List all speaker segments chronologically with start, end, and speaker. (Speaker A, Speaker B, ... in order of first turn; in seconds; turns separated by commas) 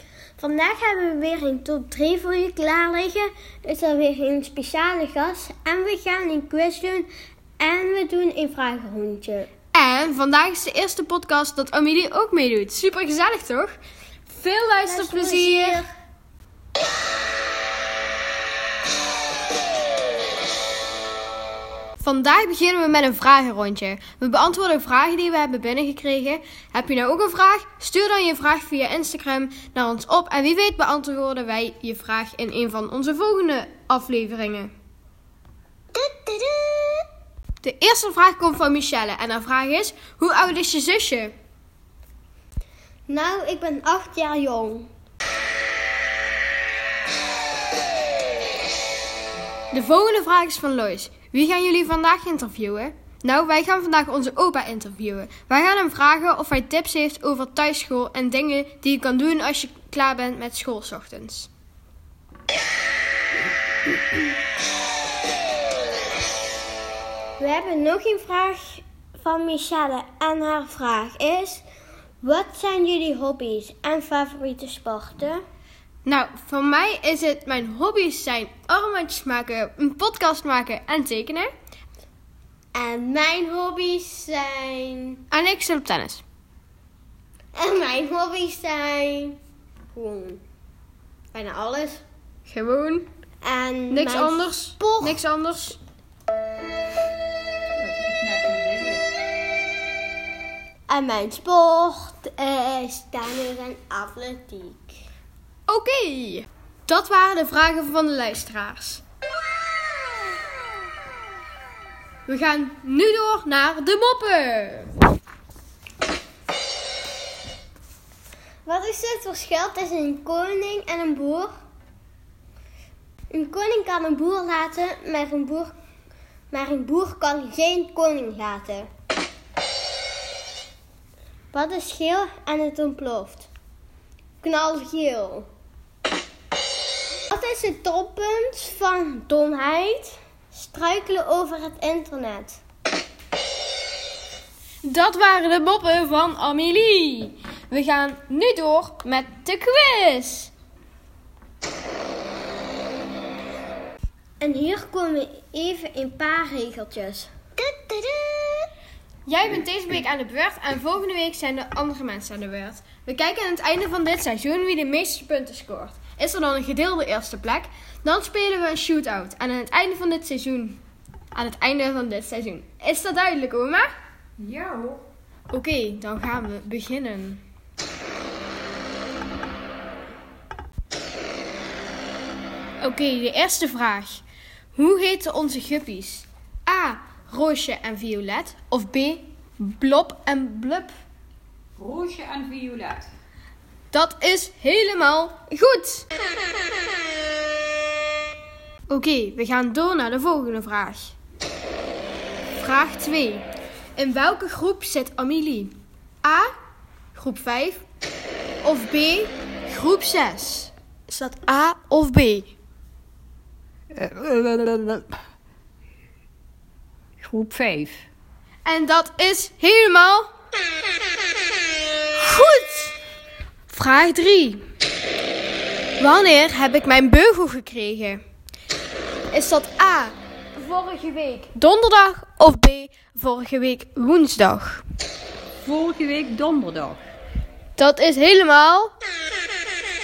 Speaker A: 0.4-7.1, Speaker A: 7.6-9.5, Speaker B: 9.7-13.8, Speaker B: 14.3-15.8, Speaker A: 14.8-15.8, Speaker B: 22.0-34.7, Speaker A: 35.9-37.0, Speaker B: 37.6-41.3, Speaker A: 43.1-44.9, Speaker B: 49.7-61.5, Speaker A: 67.4-71.6, Speaker A: 72.2-75.4, Speaker B: 76.0-81.5, Speaker A: 82.7-85.2, Speaker B: 85.3-86.2, Speaker A: 87.5-89.4, Speaker A: 89.9-90.4, Speaker A: 91.3-92.0, Speaker B: 92.5-93.1, Speaker A: 93.4-95.2, Speaker B: 93.9-95.8, Speaker C: 97.8-99.0, Speaker A: 100.9-104.9, Speaker B: 105.7-109.0, Speaker B: 112.3-114.9, Speaker A: 118.6-121.5, Speaker A: 123.3-125.7, Speaker A: 126.5-128.9, Speaker A: 131.5-133.5, Speaker A: 134.4-135.5, Speaker A: 137.3-142.6, Speaker B: 144.8-150.5, Speaker A: 154.4-158.7, Speaker B: 159.2-170.8, Speaker B: 171.3-173.9, Speaker C: 174.4-175.0, Speaker B: 175.5-177.4, Speaker B: 182.8-184.2, Speaker B: 184.7-190.9, Speaker C: 191.8-193.1, Speaker B: 193.9-196.1, Speaker B: 198.9-201.1, Speaker B: 202.6-206.5, Speaker B: 207.1-207.8, Speaker B: 208.6-212.5, Speaker C: 213.9-215.1, Speaker C: 217.2-218.0, Speaker B: 218.6-220.3, Speaker B: 222.2-222.9, Speaker B: 223.7-224.6, Speaker B: 226.0-228.2, Speaker B: 229.3-234.8, Speaker C: 235.6-237.0, Speaker B: 237.8-238.9